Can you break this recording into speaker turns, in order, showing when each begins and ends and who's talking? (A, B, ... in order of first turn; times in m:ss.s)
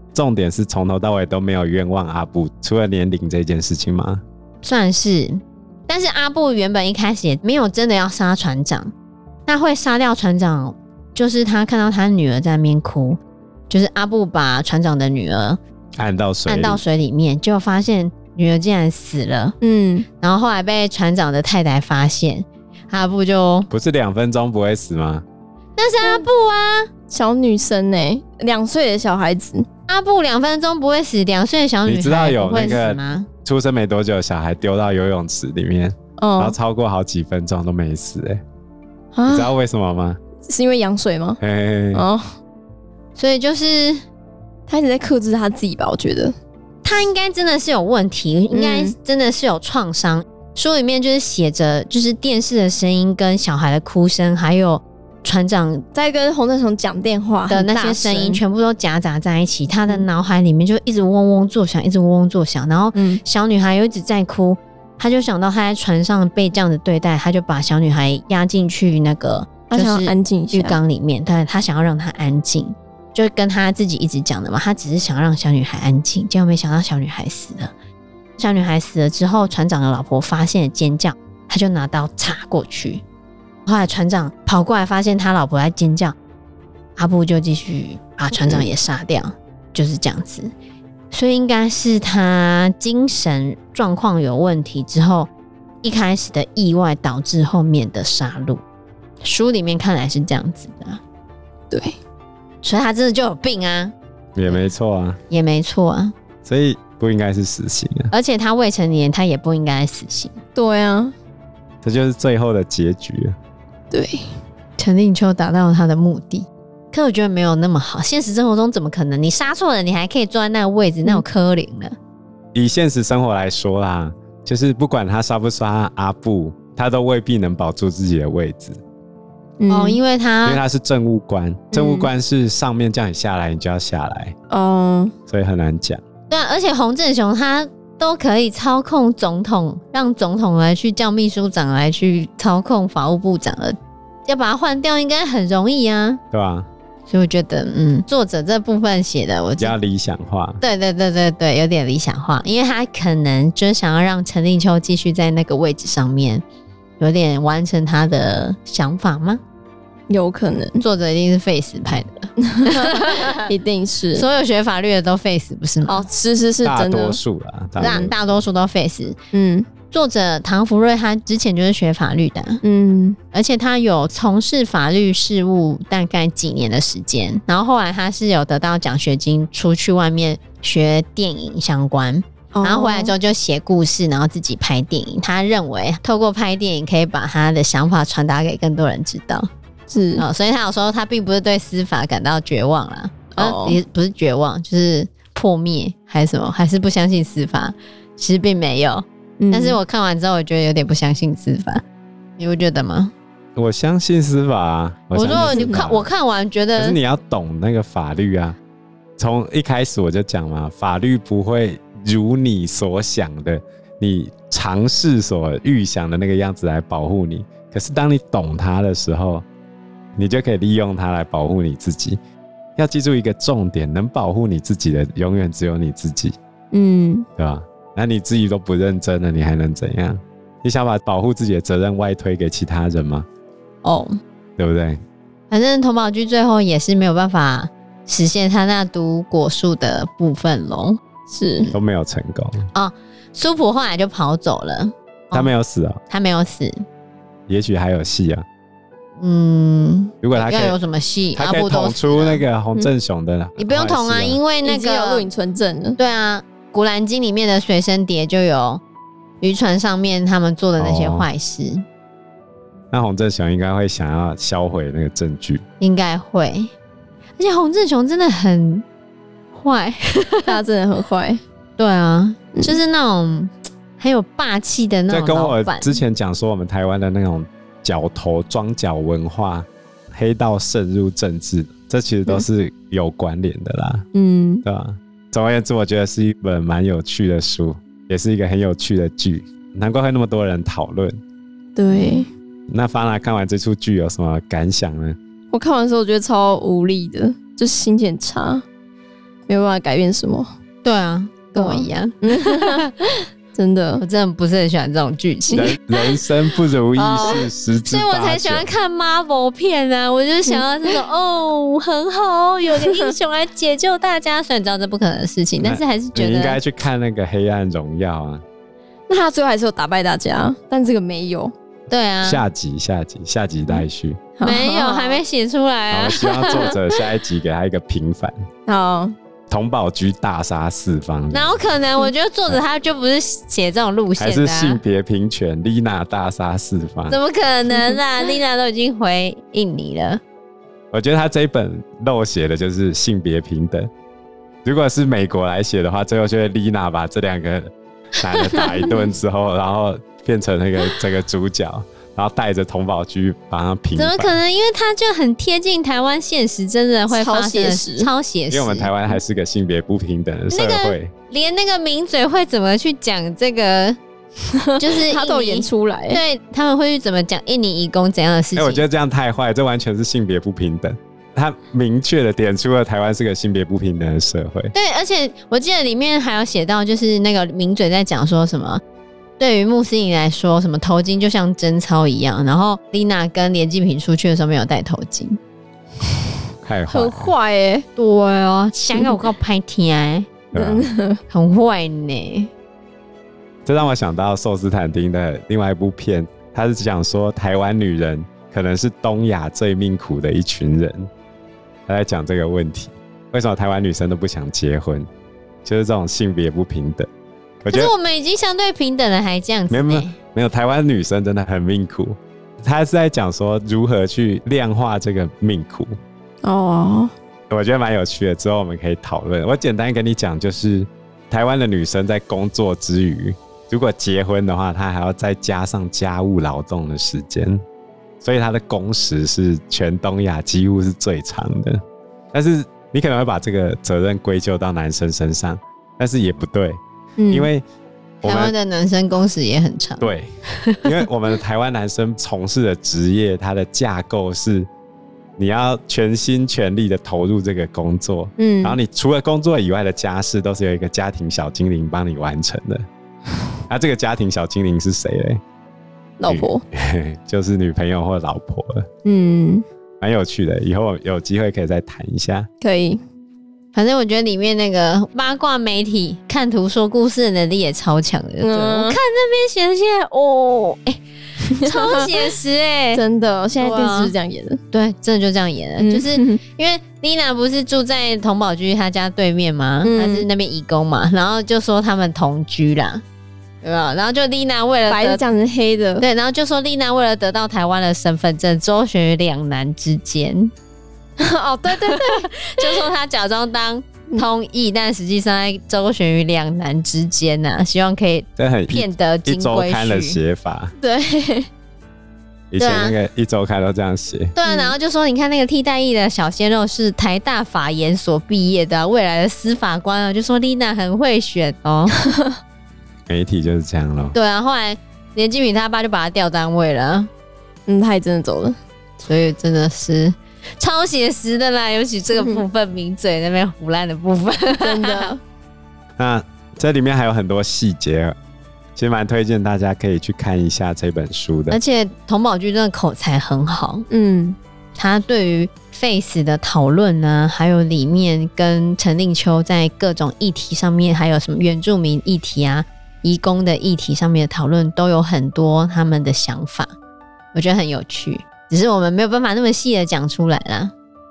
0:00.1-0:04.2 A
0:04.6-0:08.9 B
0:09.5-0:15.6 B
0:16.0-0:16.8 A
0:16.5-0:19.6 B
0:19.6-0:20.1 C
0:20.2-0:23.7 B
0:23.7-0:25.2 A
0:25.8-0:26.9 B
0:26.0-0:26.3 C
0:27.1-0:29.7 C
0:29.9-0:33.3 B
0:31.9-0:38.4 A
0:36.2-0:36.6 C
0:39.2-0:39.5 C
0:39.3-0:40.2 A
0:40.4-0:41.4 C
0:41.4-0:42.1 A
0:41.9-0:42.2 C
0:43.2-0:44.0 B
0:44.7-0:46.4 C
0:46.8-0:55.9 B
0:48.5-0:49.0 C
0:55.9-0:58.4 C
0:57.5-1:17.7 B
1:03.0-1:03.2 C
1:09.7-1:10.8 C
1:18.4-1:23.0 B
1:23.7-1:26.2 B
1:27.0-1:30.5 B
1:31.1-1:35.3 B
1:35.8-1:38.6 B
1:39.2-1:41.0 B
1:41.7-1:42.0 C
1:42.6-1:43.9 B
1:44.4-1:45.2 A
1:45.3-1:46.1 B
1:46.4-1:48.1 A
1:48.1-1:50.4 B
1:50.6-1:51.1 C
1:51.8-1:53.4 A
1:53.9-1:54.3 C
1:54.8-2:01.9 B
2:02.5-2:08.8 A
2:09.6-2:10.0 C
2:09.7-2:10.6 B
2:10.4-2:14.4 A
2:11.7-2:12.1 C
2:14.5-2:15.1 C
2:15.3-2:16.0 A
2:16.3-2:26.2 B
2:26.3-2:26.7 A
2:27.1-2:29.8 B
2:29.6-2:30.6 A
2:30.6-2:36.4 B
2:37.0-2:39.4 B
2:40.1-2:40.8 C
2:40.8-2:43.5 B
2:42.4-2:44.3 C
2:44.2-2:46.0 B
2:45.9-2:47.2 C
2:46.6-2:48.2 A
2:47.8-2:49.2 B
2:49.3-2:49.7 C
2:49.9-2:52.6 B
2:52.6-2:53.2 C
2:53.3-3:09.5 B
3:02.5-3:03.1 C
3:09.9-3:10.2 C
3:10.2-3:21.8 B
3:13.4-3:13.8 C
3:19.4-3:19.8 C
3:22.4-3:23.1 B
3:23.6-3:26.1 A
3:25.1-3:27.0 B
3:25.3-3:25.8 C
3:26.8-3:28.6 A
3:29.2-3:39.4 A
3:40.2-3:42.2 A
3:42.8-3:46.4 A
3:46.7-3:47.3 C
3:47.4-3:53.3 A
3:53.8-3:54.2 B
3:54.6-3:55.0 A
3:55.5-4:01.0 B
4:01.3-4:01.7 C
4:01.7-4:02.7 A
4:02.7-4:05.5 B
4:05.3-4:06.0 A
4:06.1-4:06.8 B
4:07.5-4:08.4 A
4:09.2-4:12.4 B
4:10.2-4:10.8 A
4:11.4-4:14.4 A
4:13.6-4:15.3 B
4:14.6-4:16.0 C
4:16.0-4:18.8 B
4:19.4-4:21.8 B
4:20.8-4:21.3 A
4:22.9-4:25.6 A
4:25.8-4:26.7 B
4:27.4-4:28.8 B
4:29.5-4:30.5 B
4:30.5-4:31.4 C
4:31.8-4:36.0 B
4:32.5-4:32.8 C
4:35.1-4:44.1 A
4:44.1-4:44.6 C
4:44.6-4:51.2 A
4:51.8-4:52.3 C
4:51.9-4:52.3 B
4:52.7-4:55.2 A
4:55.5-4:58.6 C
4:59.5-5:00.5 C
5:00.8-5:02.9 B
5:01.6-5:02.9 C
5:03.5-5:04.0 C
5:04.0-5:06.2 B
5:05.6-5:08.7 A
5:07.0-5:16.6 B
5:10.5-5:11.0 C
5:12.8-5:13.1 C
5:15.6-5:18.4 A
5:19.1-5:21.5 C
5:21.9-5:22.4 B
5:22.2-5:24.2 A
5:24.4-5:25.2 C
5:24.4-5:26.8 B
5:25.9-5:28.4 A
5:28.7-5:29.1 C
5:29.5-5:31.6 A
5:31.3-5:34.8 B
5:34.2-5:37.2 A
5:37.1-5:40.2 B
5:40.9-5:43.9 A
5:44.6-5:54.3 A
5:48.3-5:49.0 B
5:54.0-5:58.9 B
5:57.1-5:58.1 C
5:58.5-6:01.1 A
6:00.5-6:04.0 B
6:04.6-6:06.2 C
6:04.8-6:08.8 B
6:08.6-6:14.7 A
6:14.7-6:18.8 B
6:19.4-6:25.4 B
6:26.6-6:27.3 A
6:26.9-6:27.9 C
6:28.0-6:30.3 B
6:30.5-6:30.9 A
6:30.6-6:31.2 C
6:31.3-6:32.5 B
6:33.7-6:41.1 A
6:41.9-6:45.1 A
6:45.6-6:47.1 A
6:47.6-6:47.9 A
6:47.7-6:50.2 B
6:49.7-6:55.9 A
6:56.4-6:57.1 C
6:57.5-7:07.6 A
7:08.2-7:11.8 A
7:12.3-7:17.6 A
7:17.2-7:17.5 C
7:18.2-7:18.5 A
7:18.2-7:20.1 B
7:20.0-7:20.3 A
7:20.6-7:21.0 B
7:20.8-7:24.7 A
7:25.4-7:32.9 A
7:28.4-7:28.8 C
7:33.7-7:35.4 A
7:36.2-7:36.6 C
7:36.3-7:38.9 A
7:39.0-7:39.6 C
7:40.0-7:42.5 A
7:42.6-7:43.0 C
7:43.7-7:53.0 B
7:48.4-7:49.0 C
7:51.5-7:52.3 C
7:53.0-7:54.6 C
7:53.6-7:54.1 B
7:54.7-8:03.0 B
7:55.8-7:56.4 C
7:59.8-8:00.3 C
8:03.6-8:05.2 B
8:04.9-8:06.0 C
8:06.0-8:10.5 B
8:11.2-8:12.9 C
8:11.7-8:20.2 B
8:18.4-8:20.7 A
8:20.8-8:21.5 C
8:22.5-8:24.3 A
8:22.6-8:23.0 B
8:24.4-8:32.0 B
8:24.4-8:24.8 C
8:33.1-8:34.2 A
8:34.1-8:37.1 B
8:37.7-8:38.6 C
8:39.1-8:45.1 B
8:42.2-8:42.4 C
8:44.6-8:45.2 C
8:46.0-8:48.2 A
8:48.8-8:51.6 A
8:51.5-8:53.9 B
8:53.9-8:54.4 C
8:54.8-9:06.7 B
9:07.3-9:10.7 B